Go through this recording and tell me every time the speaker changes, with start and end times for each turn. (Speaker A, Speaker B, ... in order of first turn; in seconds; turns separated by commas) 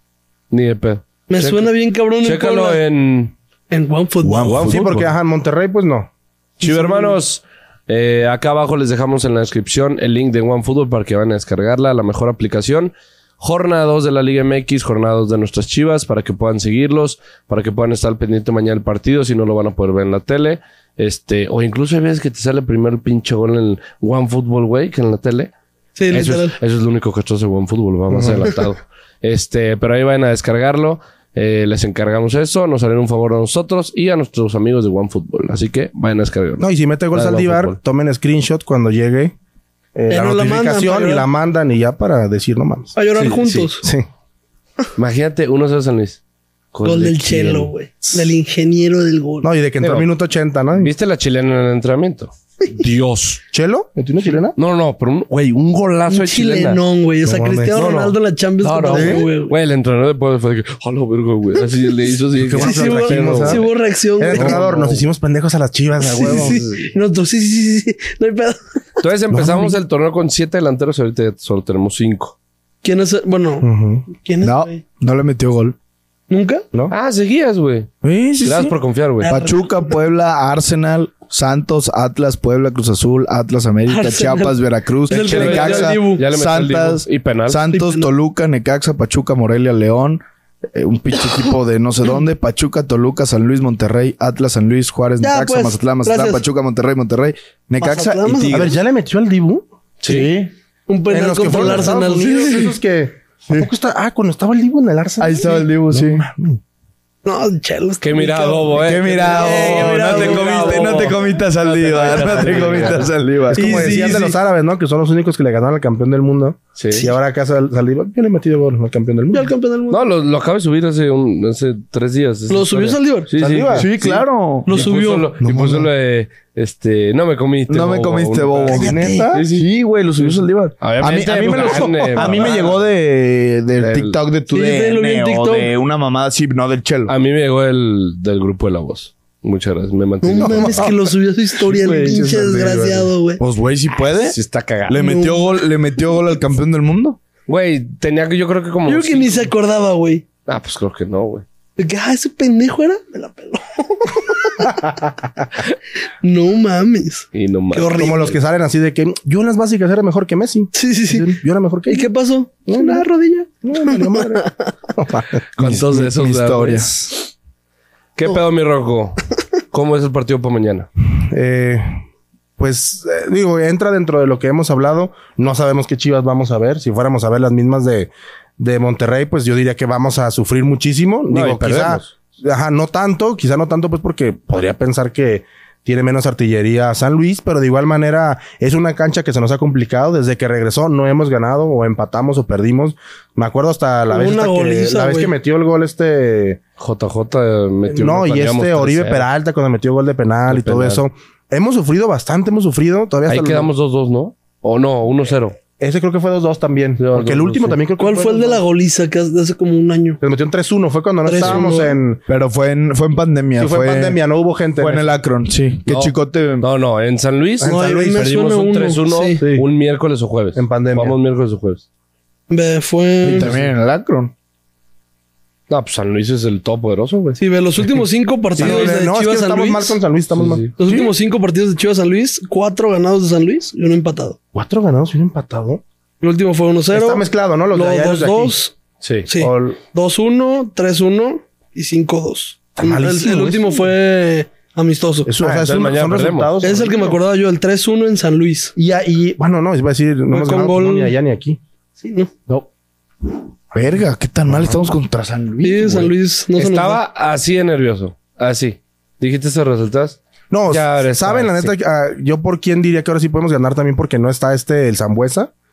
Speaker A: 0.5-1.7, Speaker B: 1.3-2.8, Speaker A: 2.2-3.3, Speaker B: 3.7-4.6, Speaker C: 4.2-5.1, Speaker A: 4.4-5.1, Speaker D: 4.7-6.1, Speaker B: 6.6-7.2, Speaker A: 6.6-25.5, Speaker B: 26.0-26.6, Speaker A: 26.1-37.8, Speaker D: 28.1-28.5, Speaker D: 36.6-39.3, Speaker D: 40.0-43.0, Speaker B: 40.1-41.3, Speaker B: 43.0-43.9, Speaker A: 43.1-43.7, Speaker A: 45.0-46.2, Speaker A: 46.7-47.7, Speaker B: 46.9-49.5, Speaker D: 49.4-50.9, Speaker A: 49.8-50.1, Speaker A: 50.8-53.4, Speaker D: 53.5-54.6, Speaker A: 54.6-56.8, Speaker B: 56.1-59.5, Speaker D: 57.2-57.8, Speaker A: 57.7-63.7, Speaker D: 58.9-59.2, Speaker D: 62.4-63.7, Speaker B: 62.6-64.6, Speaker D: 64.2-66.8, Speaker A: 64.3-65.0, Speaker B: 66.1-69.0, Speaker A: 69.0-72.3, Speaker D: 69.3-69.7, Speaker B: 72.8-74.8, Speaker D: 73.6-74.1, Speaker C: 74.4-75.8, Speaker B: 76.3-76.6, Speaker A: 76.9-77.9, Speaker C: 78.0-98.8, Speaker A: 78.4-79.4, Speaker B: 79.2-79.9, Speaker B: 83.9-86.2, Speaker A: 85.1-87.6, Speaker B: 87.7-88.1, Speaker B: 95.2-96.4, Speaker B: 97.8-98.7, Speaker D: 98.5-99.7, Speaker A: 100.0-100.3, Speaker C: 100.0-100.5, Speaker B: 100.9-102.8, Speaker D: 101.1-106.6, Speaker C: 101.5-101.9, Speaker C: 105.2-106.2, Speaker B: 107.2-111.1, Speaker A: 108.0-113.1, Speaker C: 108.8-114.4, Speaker D: 113.5-119.5, Speaker B: 113.5-114.3, Speaker A: 116.8-117.1, Speaker B: 119.3-120.0, Speaker A: 119.9-132.7, Speaker B: 122.5-123.3, Speaker D: 123.4-123.9, Speaker C: 123.7-124.7, Speaker B: 124.7-125.3, Speaker D: 125.4-125.9, Speaker C: 127.7-137.1, Speaker D: 128.7-129.4, Speaker D: 131.6-132.7, Speaker A: 133.8-134.2, Speaker B: 134.5-135.7, Speaker A: 137.1-140.8, Speaker B: 140.2-143.4, Speaker D: 140.4-143.1, Speaker C: 141.8-142.7, Speaker C: 143.4-147.2, Speaker A: 144.3-145.0, Speaker B: 145.0-145.5, Speaker A: 147.5-149.5, Speaker B: 148.8-150.2, Speaker A: 150.5-151.4, Speaker B: 151.8-154.7, Speaker D: 154.7-155.0, Speaker B: 156.2-158.4, Speaker A: 157.3-158.1, Speaker D: 158.0-162.1, Speaker B: 160.7-161.4, Speaker B: 161.9-164.7, Speaker D: 162.7-163.1, Speaker D: 163.6-165.4, Speaker A: 165.6-167.1, Speaker C: 165.6-167.0, Speaker A: 168.2-170.9, Speaker D: 171.3-171.9, Speaker D: 172.6-196.6, Speaker A: 181.3-182.1, Speaker B: 194.1-195.3, Speaker A: 196.8-199.3, Speaker D: 197.9-203.7, Speaker A: 200.5-201.0, Speaker A: 203.3-205.6, Speaker D: 205.8-208.6, Speaker A: 207.0-207.8, Speaker B: 208.0-210.2, Speaker D: 210.2-212.2, Speaker B: 211.2-212.0, Speaker C: 212.3-214.2, Speaker D: 213.6-215.1, Speaker C: 214.8-216.7, Speaker A: 215.9-221.8, Speaker D: 217.6-218.2, Speaker B: 217.6-219.4, Speaker D: 219.4-219.7, Speaker D: 220.6-221.2, Speaker B: 222.5-223.5, Speaker C: 223.2-224.3, Speaker A: 225.7-227.4, Speaker B: 227.4-230.0, Speaker D: 228.6-230.7, Speaker A: 228.6-228.9, Speaker A: 230.3-230.7, Speaker B: 230.8-234.4, Speaker D: 234.5-235.8, Speaker B: 236.2-238.7, Speaker D: 236.9-238.6, Speaker A: 239.0-239.3, Speaker B: 239.3-245.3, Speaker D: 239.4-239.8, Speaker D: 242.8-243.9, Speaker D: 245.3-247.2, Speaker A: 245.4-246.5, Speaker B: 246.6-248.7, Speaker D: 248.8-251.6, Speaker B: 250.3-251.2, Speaker B: 252.0-252.3, Speaker C: 253.7-256.1, Speaker D: 254.5-254.8, Speaker B: 255.6-257.0, Speaker A: 256.6-260.2, Speaker D: 260.5-265.5, Speaker A: 260.7-261.7